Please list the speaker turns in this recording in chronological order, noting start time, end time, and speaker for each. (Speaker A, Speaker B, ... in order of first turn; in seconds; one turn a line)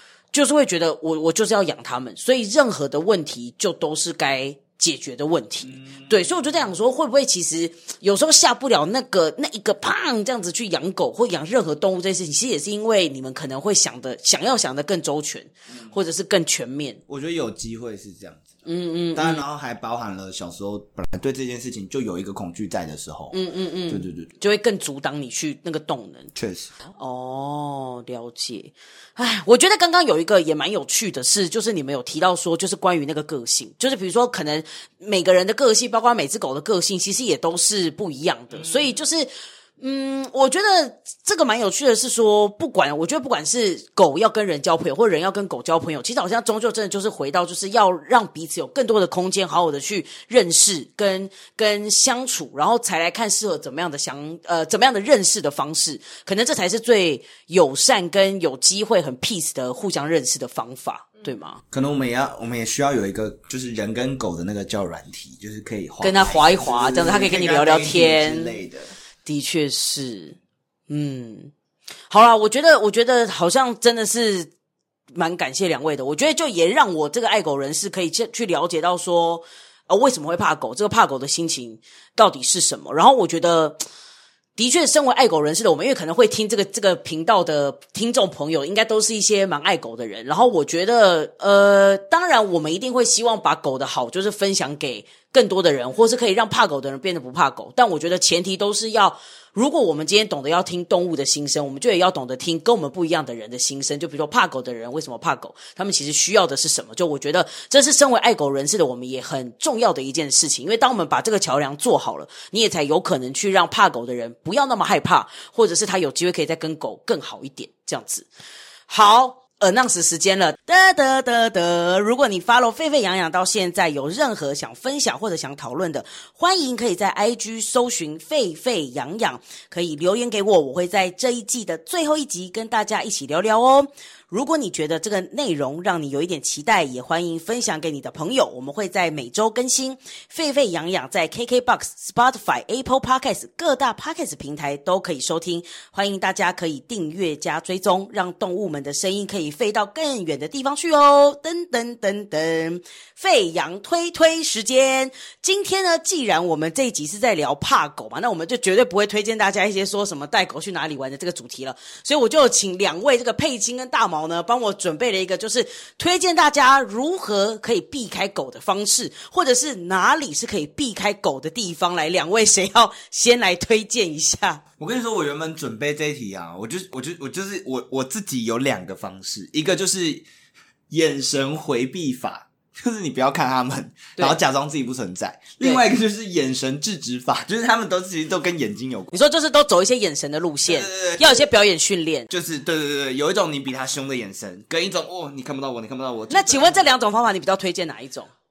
Speaker A: 0.3-17.0
Speaker B: 5.7-6.3
Speaker B: 17.1-18.6
Speaker A: 18.7-19.4
Speaker B: 19.1-23.4
Speaker A: 23.3-26.3
Speaker B: 23.9-24.3
Speaker B: 26.4-26.7
Speaker A: 26.9-61.6
Speaker B: 38.5-39.0
Speaker B: 61.7-68.9
Speaker A: 66.0-68.5
Speaker A: 69.2-70.4
Speaker A: 70.9-71.5
Speaker A: 72.1-74.5
Speaker A: 75.2-83.8
Speaker A: 84.6-118.3
Speaker A: 118.9-174.6
Speaker B: 174.8-180.3
Speaker B: 180.9-189.2
Speaker A: 189.1-192.3
Speaker B: 190.7-191.5
Speaker B: 192.3-196.9
Speaker A: 196.3-198.3